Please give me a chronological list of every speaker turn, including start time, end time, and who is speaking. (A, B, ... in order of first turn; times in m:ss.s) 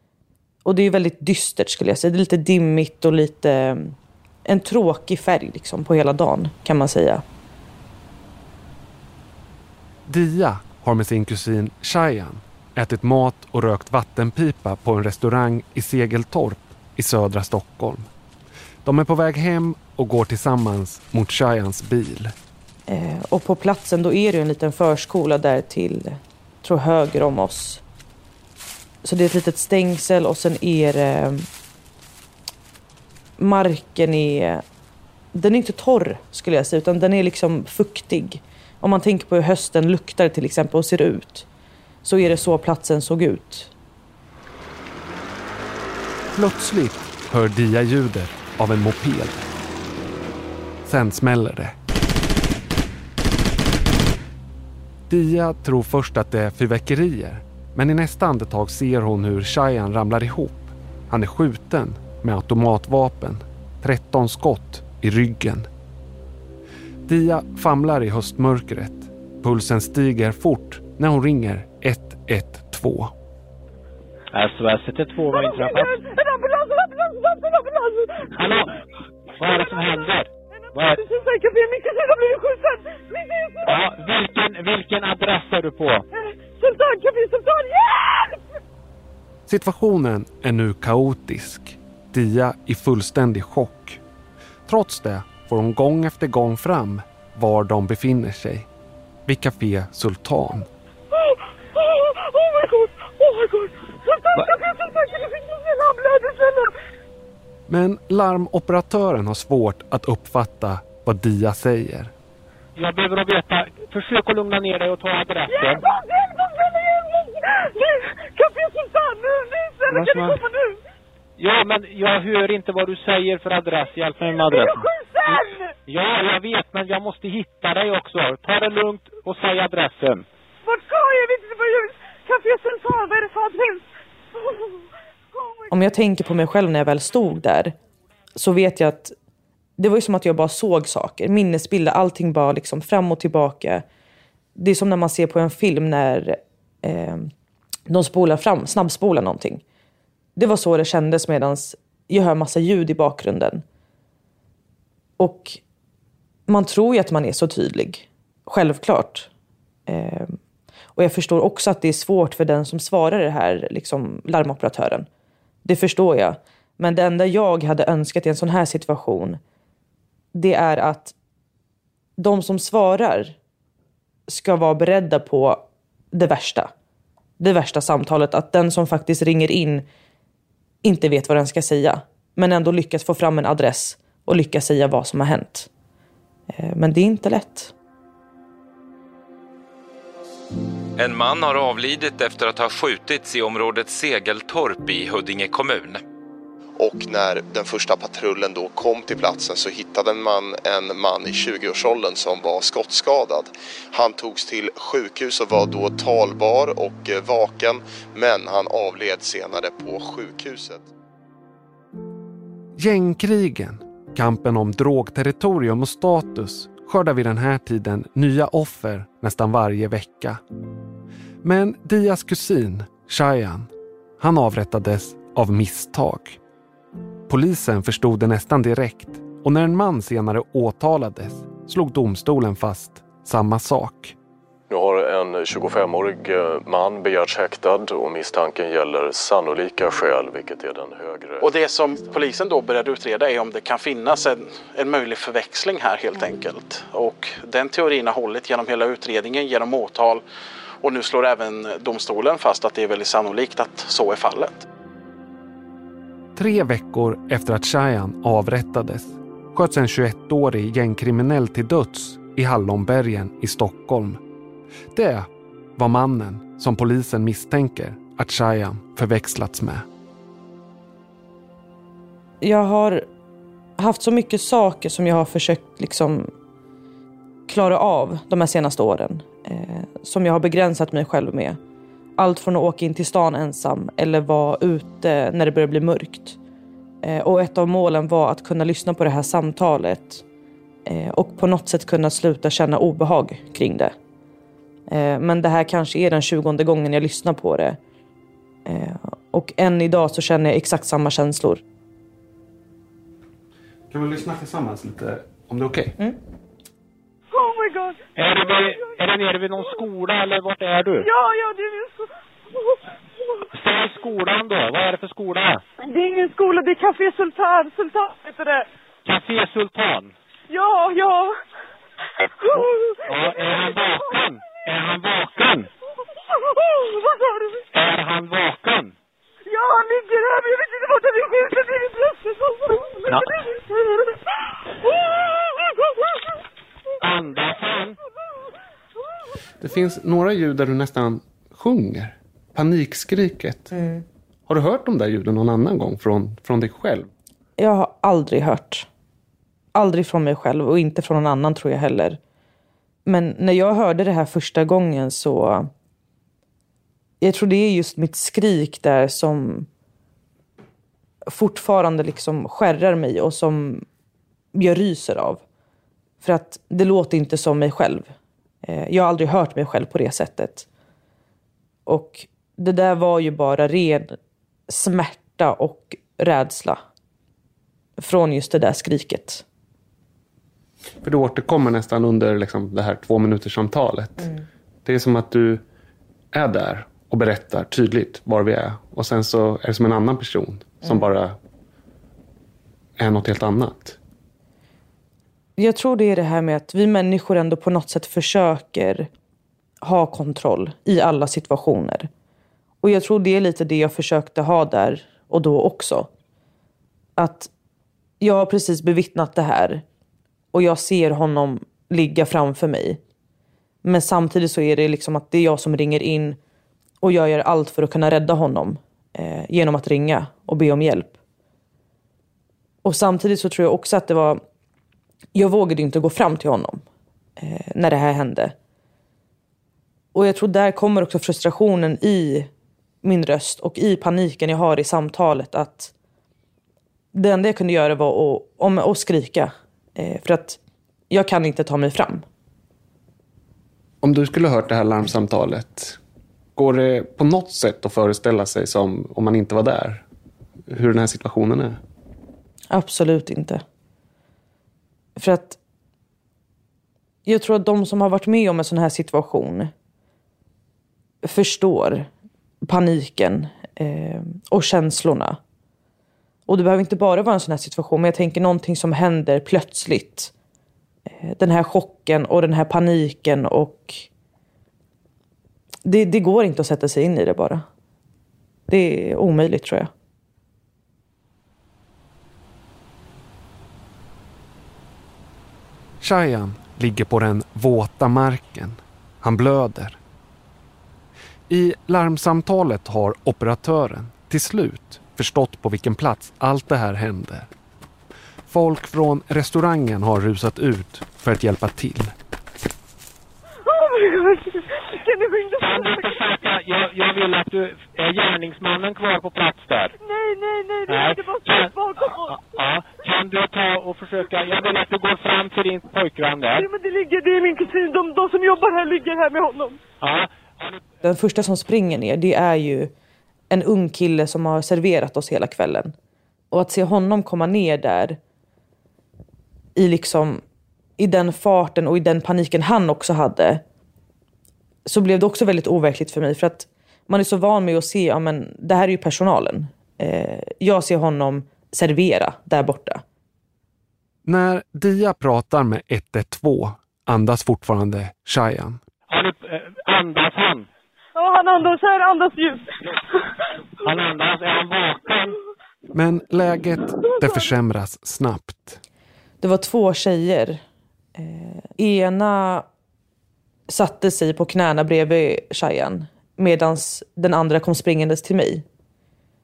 0:00.6-0:04.0 A
0:04.5-0:07.2 A
0:10.1-0:18.1 B
0:18.8-0:22.3 B
0:22.9-0:27.8 A
0:29.0-0:31.4 A
0:33.4-0:34.6 A
0:35.3-0:41.5 A
0:42.0-0:43.7 A
0:46.3-0:49.5 B
0:50.8-0:51.7 B
0:55.1-1:05.7 B
1:07.1-1:13.1 B
1:14.3-1:16.0 C
1:15.2-1:18.5 D
1:18.3-1:18.7 C
1:19.3-1:21.0 C
1:20.8-1:23.8 D
1:23.6-1:26.0 C
1:26.1-1:28.4 D
1:29.5-1:34.0 B
1:34.7-1:38.7 B
1:39.2-1:40.7 B
1:41.2-1:46.7 D
1:47.7-1:52.1 B
1:52.8-1:55.8 C
1:55.5-2:00.8 D
1:59.9-2:00.4 C
2:01.4-2:10.2 C
2:04.4-2:05.7 D
2:10.6-2:13.9 D
2:15.7-2:17.7 A
2:18.4-2:19.2 A
2:19.8-2:23.8 A
2:24.6-2:27.3 A
2:27.9-2:29.6 A
2:30.4-2:33.6 A
2:35.2-2:35.6 A
2:36.5-2:39.3 A
2:39.9-2:40.3 A
2:40.9-2:45.1 A
2:45.6-2:49.4 A
2:50.3-2:51.1 A
2:52.2-2:53.4 A
2:54.3-2:56.7 A
2:57.4-2:59.8 A
3:00.8-3:05.7 A
3:06.5-3:07.7 A
3:11.0-3:16.0 E
3:16.8-3:30.9 F
3:32.8-3:40.4 B
3:41.4-3:46.4 B
3:47.3-3:54.2 B
3:54.7-4:01.4 G
4:01.4-4:10.2 H
4:10.8-4:14.6 H
4:16.4-4:24.2 B
4:24.9-4:29.8 B
4:32.4-4:33.0 A
4:33.8-4:36.2 A
4:37.5-4:41.6 A
4:42.2-4:46.4 A
4:47.0-4:50.2 A
4:50.9-4:53.9 A
4:54.9-4:57.8 A
4:58.6-5:01.6 A
5:03.9-5:05.9 B
5:07.3-5:08.8 D
5:08.2-5:11.1 C
5:11.0-5:12.1 D
5:13.5-5:15.6 C
5:15.8-5:18.7 D
5:19.0-5:20.1 C
5:20.5-5:21.3 D
5:22.2-5:23.6 D
5:22.5-5:25.7 C
5:26.3-5:27.6 D
5:27.7-5:28.9 C
5:29.5-5:36.1 D
5:37.0-5:38.0 C
5:39.6-5:43.7 B
5:44.5-5:47.1 B
5:47.6-5:48.9 A
5:49.7-5:52.2 A
5:53.0-5:55.7 A
5:57.2-5:59.7 A
6:01.3-6:03.8 A
6:04.5-6:05.4 A
6:06.2-6:08.1 A
6:08.6-6:10.7 A
6:11.8-6:14.1 A
6:14.7-6:16.8 A
6:18.0-6:19.4 A
6:21.0-6:24.3 B
6:24.8-6:25.6 B
6:26.3-6:31.4 B
6:33.0-6:34.0 B
6:35.6-6:39.1 A
6:39.8-6:42.1 A
6:42.8-6:46.1 A
6:47.2-6:47.5 A
6:48.2-6:49.8 A
6:50.5-6:53.0 A
6:53.8-6:56.4 A
6:57.0-7:01.2 A
7:02.8-7:04.4 A
7:05.3-7:06.8 A
7:07.4-7:08.5 A
7:10.1-7:12.5 A
7:13.0-7:15.9 A
7:17.1-7:22.2 A
7:24.0-7:26.0 B
7:26.6-7:30.0 B
7:30.7-7:31.8 B
7:32.7-7:33.6 A
7:35.2-7:35.6 A
7:37.2-7:39.7 A
7:41.2-7:42.1 A
7:42.6-7:45.4 A
7:46.5-7:50.3 A
7:51.2-7:54.1 A
7:55.8-7:57.6 A
7:58.7-7:59.9 A
8:06.0-8:10.0 B
8:11.5-8:17.5 B
8:18.5-8:22.1 B
8:23.6-8:26.4 D
8:25.6-8:29.9 C
8:30.0-8:32.4 D
8:30.9-8:36.7 C
8:36.5-8:39.8 D
8:40.0-8:40.8 C
8:41.0-8:42.9 A
8:43.5-8:45.9 A
8:46.5-8:48.2 A
8:49.8-8:50.4 A
8:51.0-8:53.6 A
8:54.8-9:03.0 A
9:04.2-9:08.8 B
9:09.1-9:10.7 C
9:11.2-9:12.7 D
9:13.8-9:15.4 C
9:15.9-9:18.8 B
9:19.4-9:20.6 A
9:21.2-9:22.6 A
9:23.7-9:28.6 A